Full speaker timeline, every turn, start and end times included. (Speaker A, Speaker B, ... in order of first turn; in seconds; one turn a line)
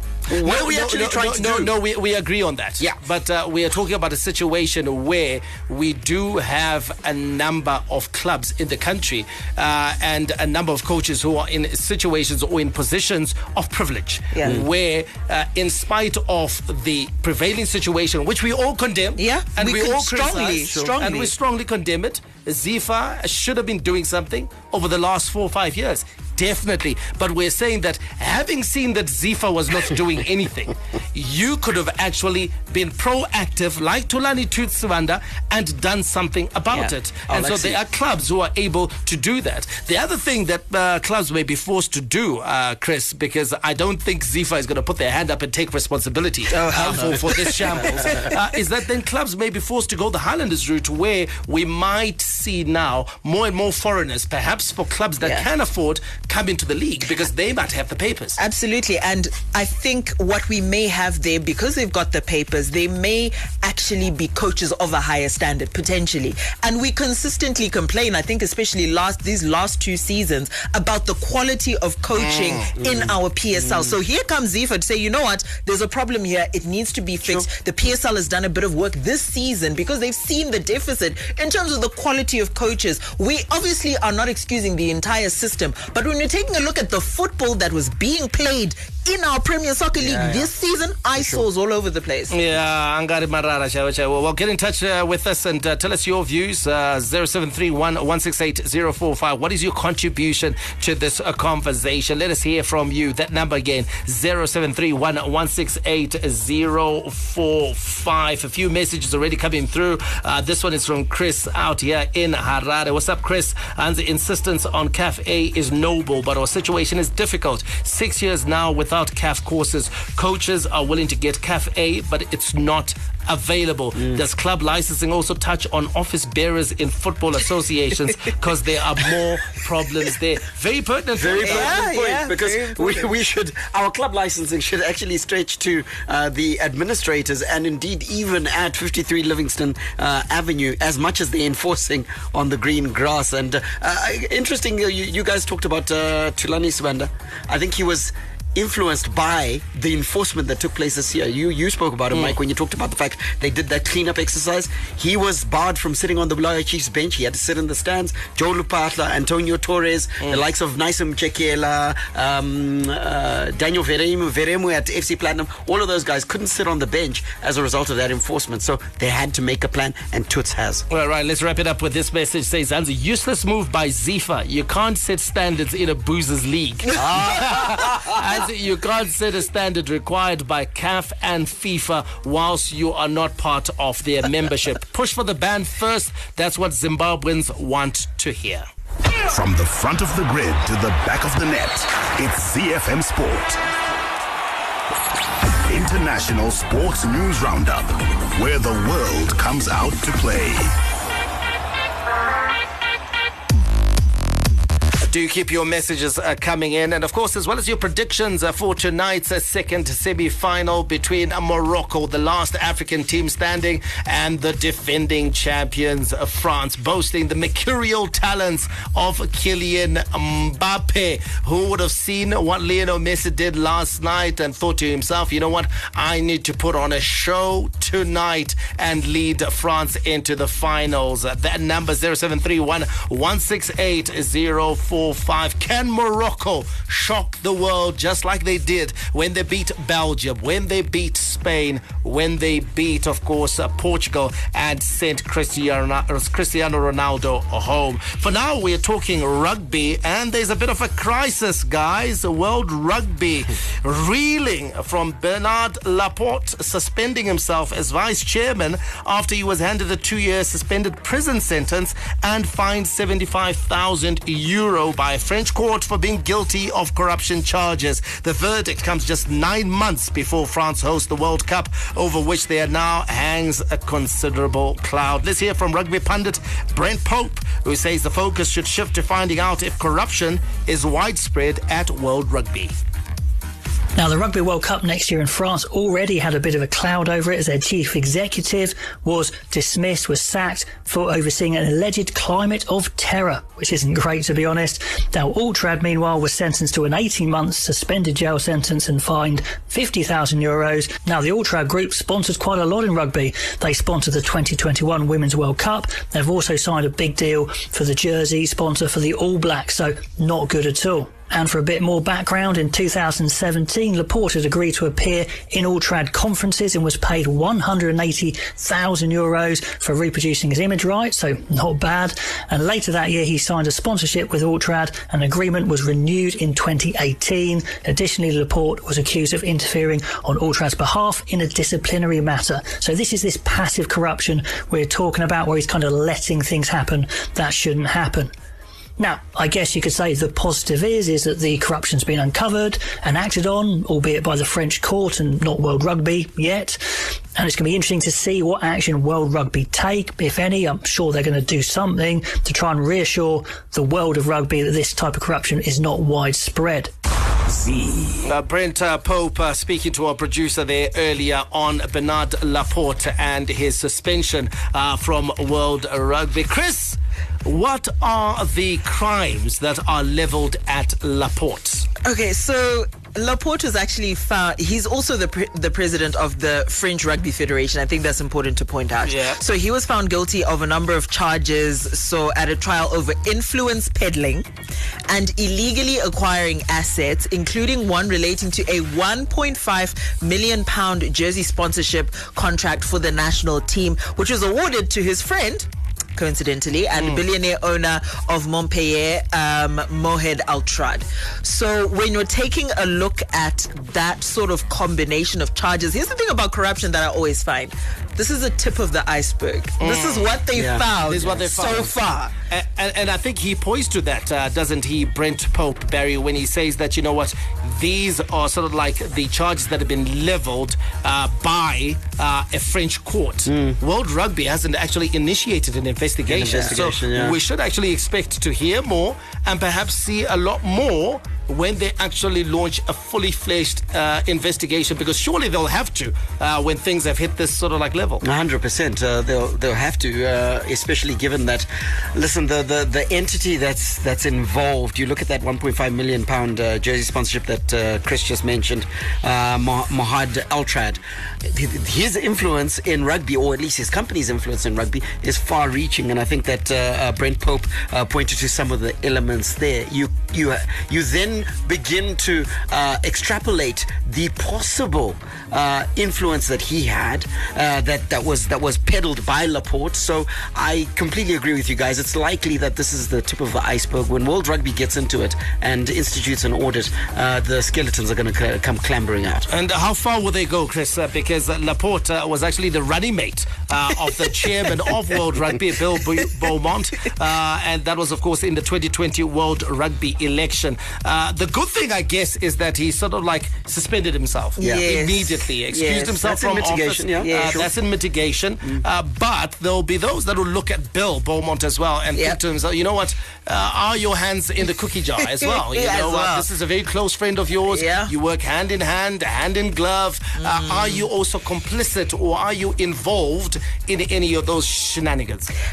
Speaker A: 0.3-1.7
Speaker B: 0.3-58.4
Speaker C: 19.2-21.3
Speaker A: 36.7-37.8
Speaker A: 46.5-48.3
Speaker C: 55.2-55.5
Speaker C: 58.4-92.3
Speaker A: 72.7-74.0
Speaker A: 90.0-90.5
Speaker A: 91.2-91.4
Speaker B: 92.3-131.8
Speaker A: 124.0-124.2
Speaker A: 131.2-170.8
Speaker C: 131.4-133.1
Speaker B: 152.1-152.4
Speaker B: 170.9-188.6
Speaker A: 176.9-178.1
Speaker D: 189.2-193.6
Speaker D: 195.7-200.7
Speaker B: 205.0-282.8
Speaker E: 283.9-338.3
Speaker E: 339.0-346.8
Speaker E: 347.3-356.9
Speaker B: 358.2-371.9
Speaker C: 372.0-384.5
Speaker B: 379.1-379.4
Speaker C: 385.1-412.3
Speaker B: 409.8-410.3
Speaker A: 410.5-410.8
Speaker B: 411.1-412.0
Speaker B: 412.5-438.2
Speaker A: 423.4-423.8
Speaker A: 426.2-427.4
Speaker A: 438.2-479.5
Speaker B: 479.5-515.5
Speaker C: 494.6-496.1
Speaker A: 494.6-494.9
Speaker A: 495.8-497.7
Speaker C: 497.2-497.6
Speaker C: 505.3-506.4
Speaker C: 507.7-508.1
Speaker C: 510.4-511.1